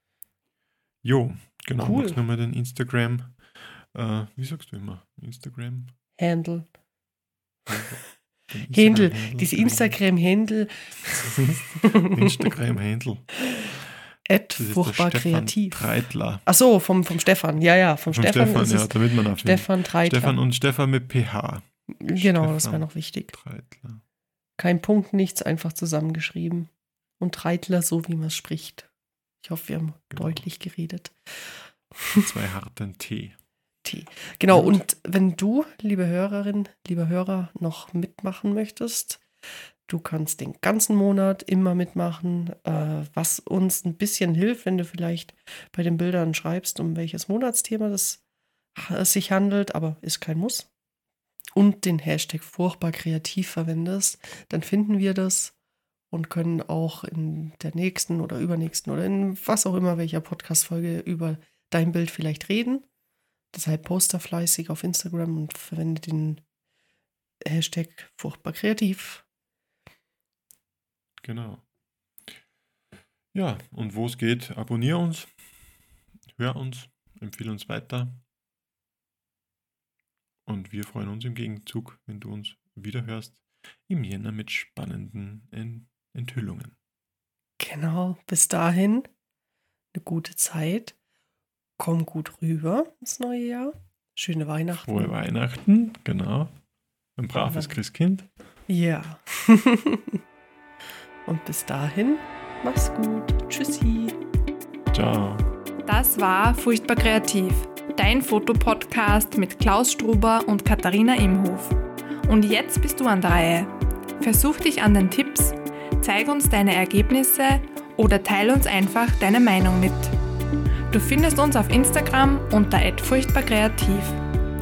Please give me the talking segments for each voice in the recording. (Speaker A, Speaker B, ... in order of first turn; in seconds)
Speaker A: 1.0-5.9, 7.7-10.0, 11.3-13.3, 14.6-16.4, 18.1-24.0, 30.1-30.4, 32.1-33.4, 34.5-34.8, 71.2-71.6, 73.3-75.3, 76.3-78.2, 80.5-86.7, 94.8-96.5, 97.2-98.3, 104.9-105.5
Speaker B: 1.8-2.2, 6.2-6.7, 8.7-12.5, 14.2-15.8, 16.4-20.4, 22.0-23.3, 24.6-28.9, 29.4-32.2, 33.8-39.2, 39.9-48.2, 48.7-50.7, 51.5-55.5, 56.1-62.9, 63.5-66.4, 67.4-69.2, 87.6-89.1, 89.9-90.9, 91.8-95.1, 97.4-97.7, 98.7-100.2, 101.2-104.2
Speaker C: 105.8-120.1, 120.9-124.2